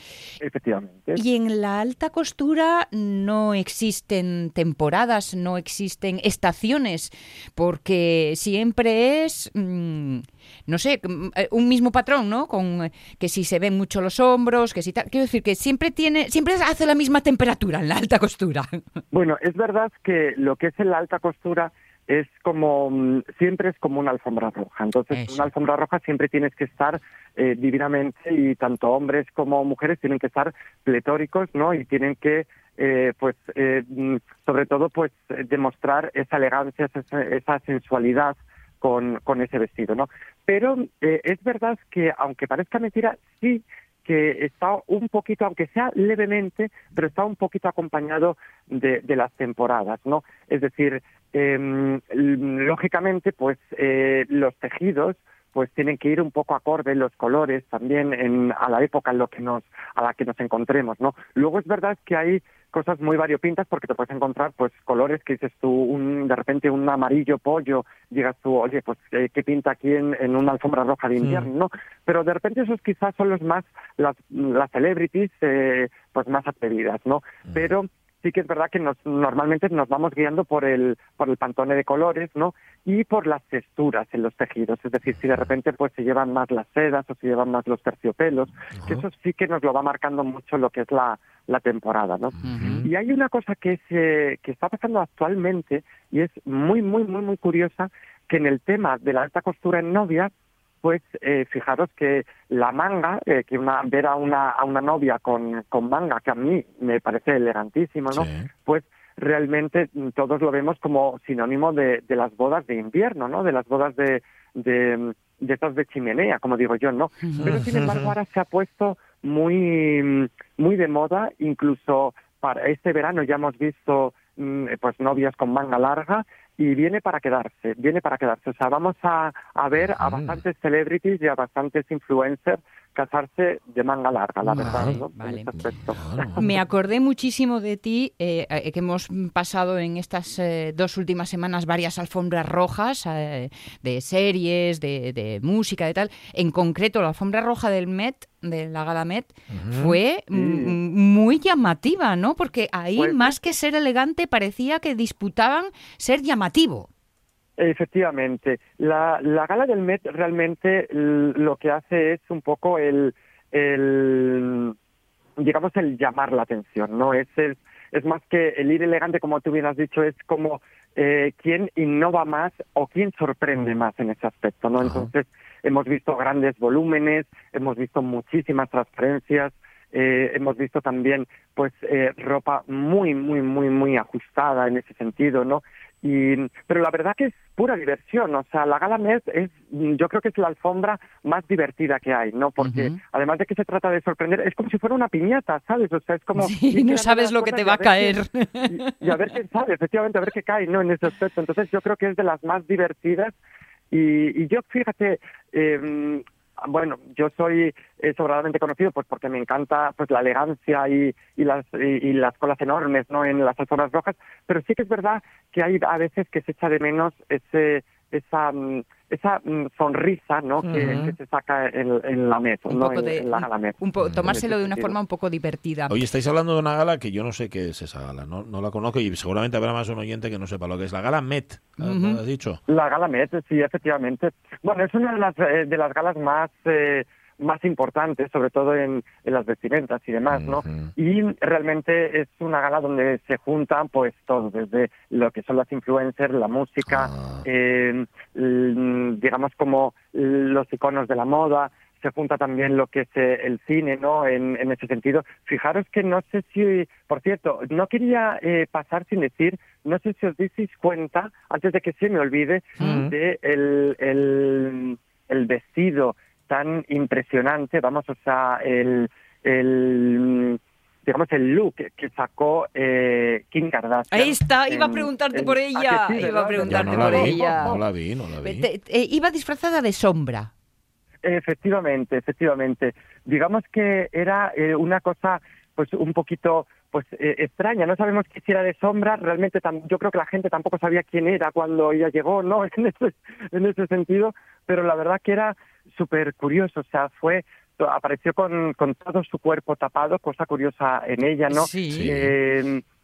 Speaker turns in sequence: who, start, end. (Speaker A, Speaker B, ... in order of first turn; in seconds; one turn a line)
Speaker A: 0.4-1.2
Speaker B: 1.1-18.8
Speaker A: 19.1-100.3
Speaker B: 25.1-25.4
Speaker C: 71.2-71.5
Speaker C: 88.7-89.0
Speaker B: 92.4-92.9
Speaker C: 92.4-92.8
Speaker A: 100.8-136.6
Speaker C: 108.1-108.5
Speaker B: 117.2-117.5
Speaker C: 117.4-118.1
Speaker C: 129.8-130.4
Speaker B: 134.4-135.5
Speaker C: 134.6-135.0
Speaker C: 135.9-136.4
Speaker B: 136.4-156.9
Speaker C: 149.5-150.0
Speaker A: 150.3-150.8
Speaker A: 152.9-153.3
Speaker A: 157.6-164.7
Speaker A: 165.4-203.3
Speaker C: 174.8-175.1
Speaker B: 192.6-193.0
Speaker B: 196.4-199.0
Speaker A: 203.9-224.9
Speaker C: 220.6-221.1
Speaker B: 222.7-226.0
Speaker C: 224.0-224.4
Speaker C: 225.9-232.6
Speaker B: 231.8-232.2
Speaker A: 232.7-277.8
Speaker C: 240.3-240.9
Speaker C: 246.9-247.4
Speaker B: 262.8-263.1
Speaker B: 274.1-277.8
Speaker C: 276.6-278.7
Speaker B: 278.4-280.5
Speaker A: 281.2-302.8
Speaker B: 301.5-302.1
Speaker C: 301.9-302.3